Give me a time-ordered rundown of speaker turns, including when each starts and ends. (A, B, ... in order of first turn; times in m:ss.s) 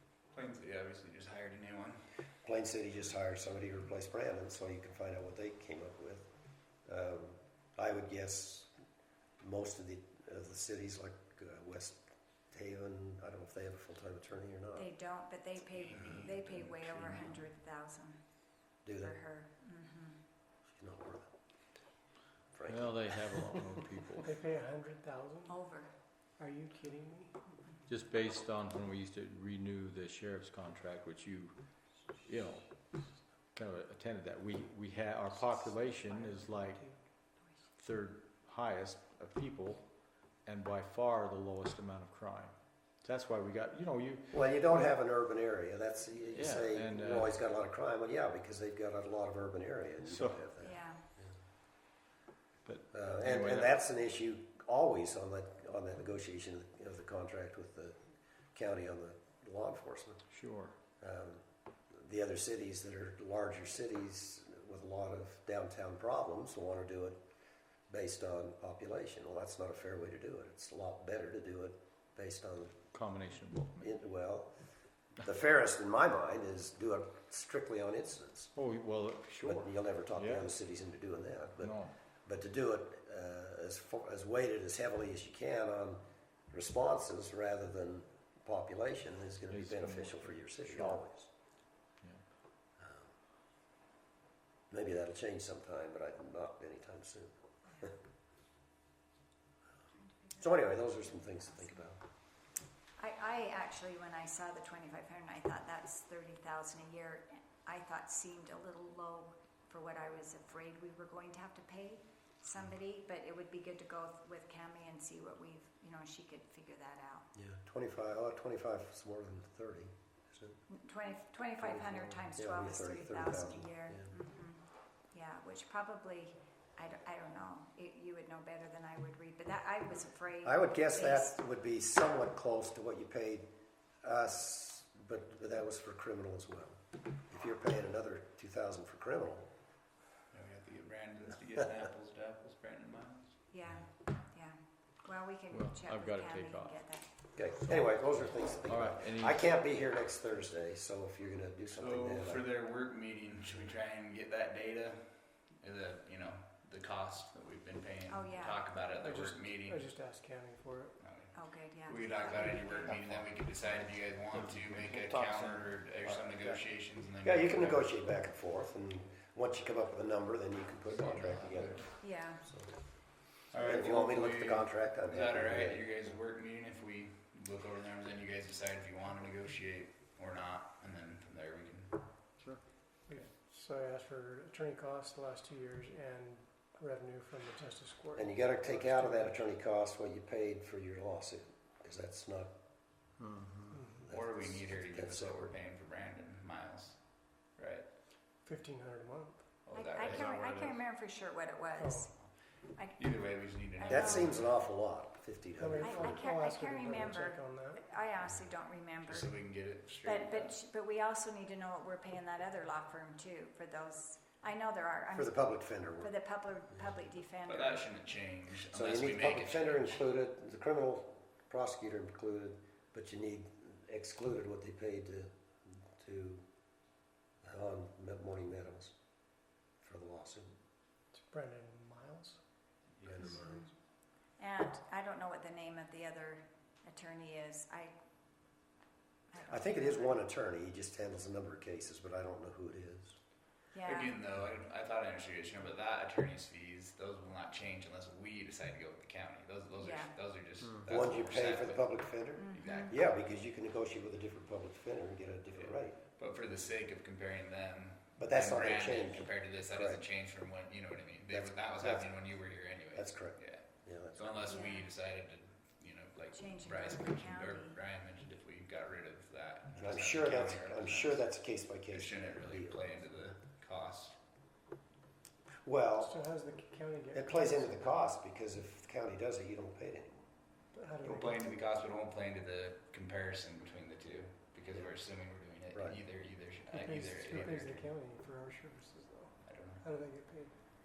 0:00.3-0:02.0 A
0:02.4-0:06.3 B
0:06.8-0:08.7 B
0:09.4-0:14.9 B
0:14.8-0:18.2 C
0:15.8-0:17.4 B
0:18.8-0:19.2 B
0:19.0-0:20.2 C
0:20.7-0:21.3 B
0:22.5-0:22.9 B
0:22.7-0:24.3 D
0:24.2-0:25.6 E
0:25.5-0:25.9 C
0:26.4-0:27.3 E
0:27.9-0:31.6 D
0:32.2-0:32.7 D
0:33.5-0:36.8 D
0:36.3-0:36.9 E
0:37.8-0:39.8 D
0:40.4-0:44.3 D
0:44.3-0:51.2 B
0:46.3-0:47.3 D
0:50.0-0:50.4 D
0:50.6-0:51.0 C
0:52.6-0:53.7 D
0:52.9-0:58.0 B
0:58.5-1:00.2 B
1:00.3-1:00.7 D
1:01.0-1:01.4 B
1:01.9-1:07.2 B
1:07.9-1:12.7 B
1:12.9-1:13.9 D
1:13.8-1:14.5 B
1:15.2-1:18.5 B
1:18.6-1:20.5 D
1:19.4-1:21.7 B
1:21.6-1:21.9 D
1:22.2-1:31.3 B
1:29.5-1:31.0 D
1:32.8-1:33.1 B
1:34.7-1:38.0 B
1:40.1-1:41.8 C
1:40.4-1:42.0 B
1:43.0-1:57.3 C
1:57.4-2:00.6 B
2:00.7-2:11.4 C
2:01.6-2:04.1 B
2:10.4-2:13.5 B
2:14.0-2:16.8 B
2:17.3-2:19.5 B
2:20.3-2:23.4 A
2:23.5-2:27.1 C
2:25.5-2:26.8 D
2:27.3-2:32.4 B
2:27.6-2:29.4 D
2:31.7-2:39.8 A
2:38.1-2:38.8 C
2:39.0-2:41.0 E
2:41.0-2:41.3 A
2:41.3-2:43.1 C
2:41.8-2:47.9 A
2:44.5-2:46.2 D
2:47.2-2:52.7 B
2:50.9-2:51.9 A
2:52.0-2:52.4 C
2:53.5-3:02.0 A
2:53.6-2:55.8 B
3:03.1-3:09.4 E
3:08.2-3:12.5 B
3:13.7-3:14.0 E
3:14.0-3:15.5 B
3:14.1-3:17.0 A
3:17.5-3:17.8 A
3:18.4-3:19.4 E
3:19.7-3:20.8 A
3:19.7-3:22.1 C
3:21.8-3:22.1 E
3:22.7-3:23.1 C
3:23.0-3:24.4 A
3:23.6-3:24.4 C
3:23.9-3:26.3 B
3:25.6-3:27.9 E
3:25.8-3:29.4 C
3:29.0-3:30.5 A
3:30.0-3:37.9 C
3:35.1-3:36.1 B
3:37.5-3:40.0 A
3:38.5-3:46.4 B
3:47.4-3:48.9 B
3:49.8-3:50.5 B
3:51.2-3:52.4 E
3:53.0-3:53.7 B
3:53.2-3:53.6 C
3:54.4-3:57.9 C
3:59.3-4:00.2 C
3:59.5-4:03.2 B
4:03.7-4:04.2 C
4:03.8-4:11.9 A
4:09.8-4:10.1 C
4:10.9-4:16.0 B
4:12.4-4:13.0 C
4:12.5-4:12.9 A
4:15.5-4:31.2 A
4:18.2-4:20.0 B
4:21.3-4:22.2 B
4:22.9-4:24.6 B
4:24.5-4:24.9 C
4:26.3-4:27.8 C
4:29.8-4:32.9 B
4:31.9-4:34.2 A
4:35.6-4:36.1 B
4:36.0-4:37.9 E
4:37.1-4:40.2 B
4:40.7-4:41.4 E
4:41.0-4:47.8 A
4:45.7-4:46.0 B
4:46.7-4:50.5 E
4:49.4-4:49.8 A